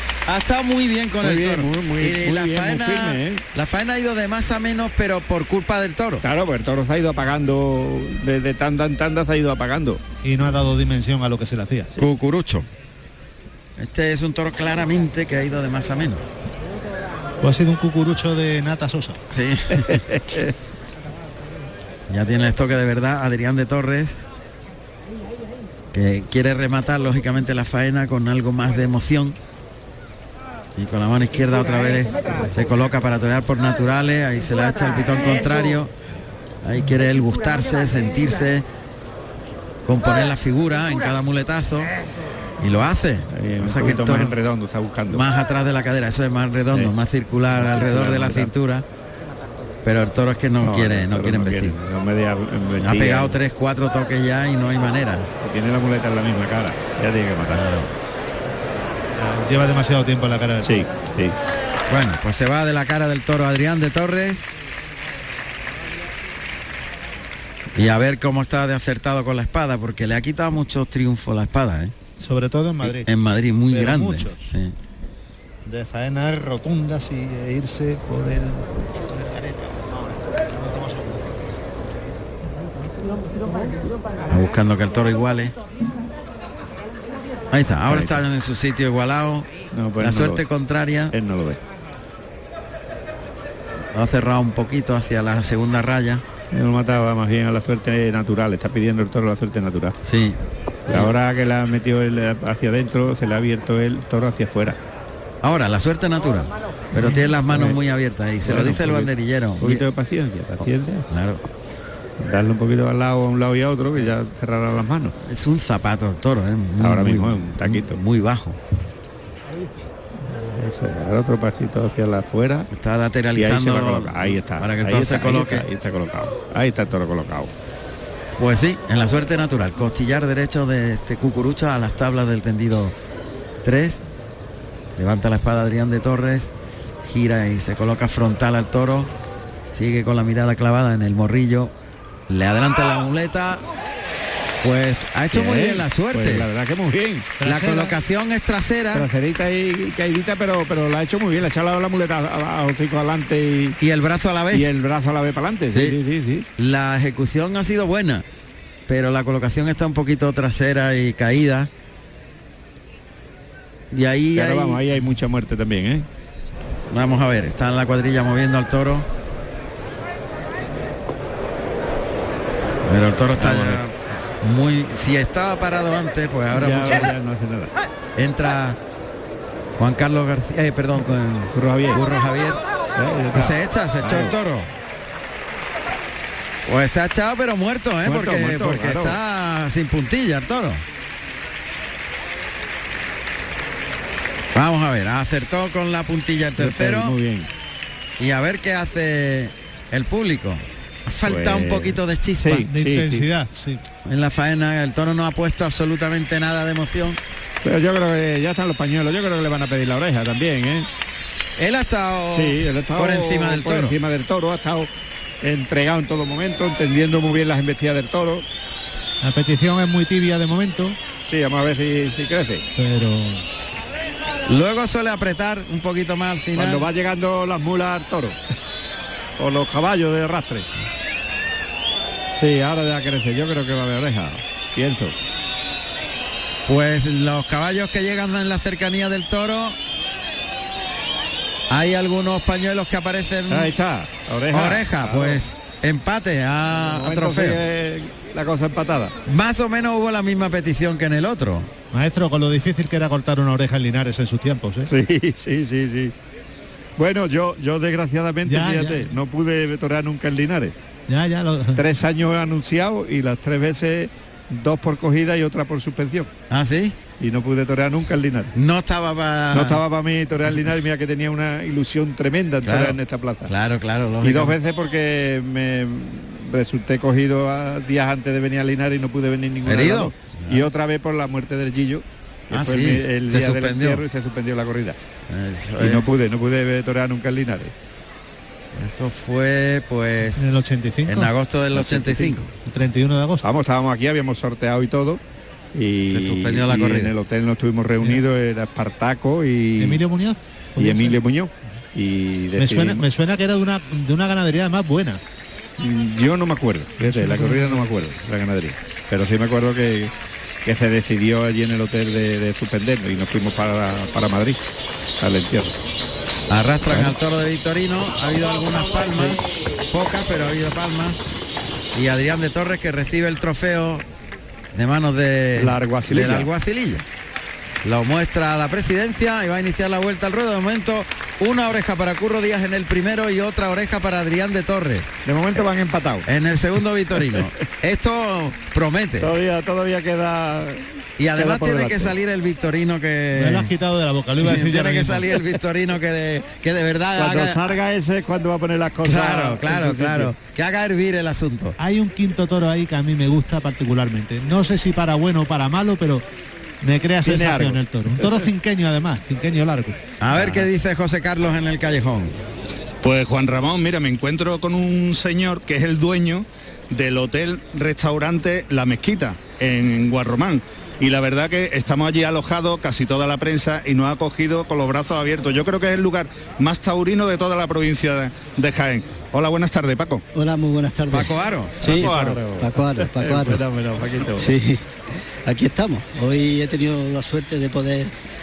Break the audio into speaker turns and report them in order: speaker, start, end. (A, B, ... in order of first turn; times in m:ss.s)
0:00.2-0:06.2 A
0:01.2-0:03.4 B
0:06.2-0:10.0 B
0:10.2-0:12.0 C
0:12.0-0:12.7 A
0:13.8-0:16.2 A
0:17.4-0:19.2 C
0:19.3-0:20.0 A
0:19.7-0:20.5 B
0:22.1-0:24.2 A
0:25.9-0:29.4 A
0:30.8-0:35.9 A
0:36.6-0:38.6 A
0:39.8-0:41.9 A
0:42.6-0:44.4 A
0:43.3-0:45.2 B
0:45.1-0:48.8 A
0:47.5-0:48.5 B
0:49.8-0:51.8 A
0:50.6-0:53.4 B
0:52.8-0:55.3 A
0:55.4-0:57.6 B
0:57.5-0:57.9 A
0:59.2-1:00.8 C
1:00.6-1:01.3 B
1:01.9-1:04.4 A
1:07.7-1:11.9 A
1:12.2-1:13.1 C
1:12.8-1:14.7 A
1:13.7-1:14.5 C
1:15.6-1:21.2 C
1:24.3-1:25.6 A
1:27.5-1:31.1 A
1:27.9-1:28.2 B
1:29.7-1:30.4 B
1:31.1-1:31.6 B
1:33.9-1:36.2 A
1:36.5-1:40.0 B
1:40.0-1:40.4 A
1:40.9-1:44.8 B
1:45.4-1:49.8 A
1:47.0-1:47.8 B
1:48.4-1:51.1 B
1:51.1-1:51.4 A
1:52.2-1:55.1 B
1:55.2-1:58.6 A
1:56.8-1:58.0 B
2:00.3-2:02.7 B
2:02.7-2:05.6 A
2:03.3-2:07.5 B
2:08.4-2:12.9 A
2:13.6-2:14.0 A
2:15.0-2:16.5 A
2:17.0-2:19.1 A
2:19.7-2:21.7 A
2:22.3-2:23.6 A
2:24.6-2:26.5 A
2:25.3-2:27.3 B
2:27.4-2:27.9 C
2:27.4-2:29.1 A
2:28.9-2:33.8 B
2:33.8-2:34.7 A
2:34.5-2:36.5 B
2:36.6-2:38.2 A
2:38.9-2:41.7 A
2:43.9-2:44.8 A
2:44.3-2:46.1 B
2:46.9-2:49.0 A
2:52.8-2:57.1 A
2:53.4-2:53.8 B
2:56.5-2:57.7 B
2:58.2-2:58.8 A
2:59.8-3:02.6 A
3:01.0-3:02.0 B
3:03.0-3:04.3 B
3:03.3-3:04.7 A
3:06.6-3:10.8 A
3:08.0-3:09.2 B
3:14.5-3:17.2 A
3:16.6-3:17.5 B
3:18.2-3:22.6 A
3:21.2-3:23.3 B
3:22.7-3:23.8 C
3:24.0-3:27.2 A
3:27.6-3:30.9 B
3:31.6-3:34.0 A
3:32.3-3:34.9 B
3:35.4-3:38.4 B
3:39.2-3:41.0 C
3:41.2-3:42.6 B
3:42.7-3:43.4 C
3:44.4-3:46.9 A
3:46.5-3:48.4 B
3:49.4-3:50.7 B
3:52.4-3:55.2 B
3:56.7-3:59.8 A
4:01.7-4:03.7 A
4:03.5-4:05.4 B
4:04.5-4:07.6 A
4:06.7-4:09.1 B
4:09.2-4:11.7 A
4:11.9-4:14.9 C
4:14.9-4:16.1 B
4:17.0-4:20.7 B
4:18.4-4:19.2 C
4:21.1-4:21.8 C
4:21.7-4:26.3 B
4:26.5-4:27.0 A
4:27.2-4:28.5 B
4:28.5-4:29.8 A
4:29.5-4:33.5 B
4:32.6-4:34.6 A
4:34.2-4:45.0 B
4:39.6-4:40.7 A
4:42.5-4:44.0 A
4:45.3-4:46.0 A
4:45.8-4:47.7 B
4:48.7-4:50.4 A
4:50.3-4:51.3 C
4:51.1-4:52.5 A
4:51.7-4:52.4 B
4:52.6-4:53.4 C
4:53.4-4:55.2 B
4:55.7-5:00.0 B
4:56.1-4:57.1 A
4:59.8-5:01.2 C
5:00.8-5:03.0 B
5:02.6-5:05.2 C
5:05.8-5:10.1 B
5:07.0-5:07.9 C
5:10.6-5:14.6 B
5:15.2-5:15.8 B
5:16.5-5:21.2 A
5:16.9-5:17.1 B
5:21.9-5:24.0 A
5:24.7-5:27.0 A
5:25.5-5:26.5 B
5:27.8-5:35.1 A
5:35.2-5:36.3 B
5:36.2-5:39.3 A
5:37.2-5:37.5 B
5:39.2-5:42.1 B
5:41.2-5:43.7 A
5:43.3-5:45.4 C
5:44.4-5:47.7 A
5:47.2-5:50.3 B
5:49.0-5:51.8 A
5:51.8-5:56.2 C
5:56.8-6:00.0 C
5:57.2-5:58.5 B
6:00.2-6:02.4 A
6:00.3-6:00.7 B
6:03.0-6:20.2 D
6:20.3-6:23.6 E
6:21.1-6:22.0 A
6:21.8-6:24.6 B
6:24.4-6:28.1 E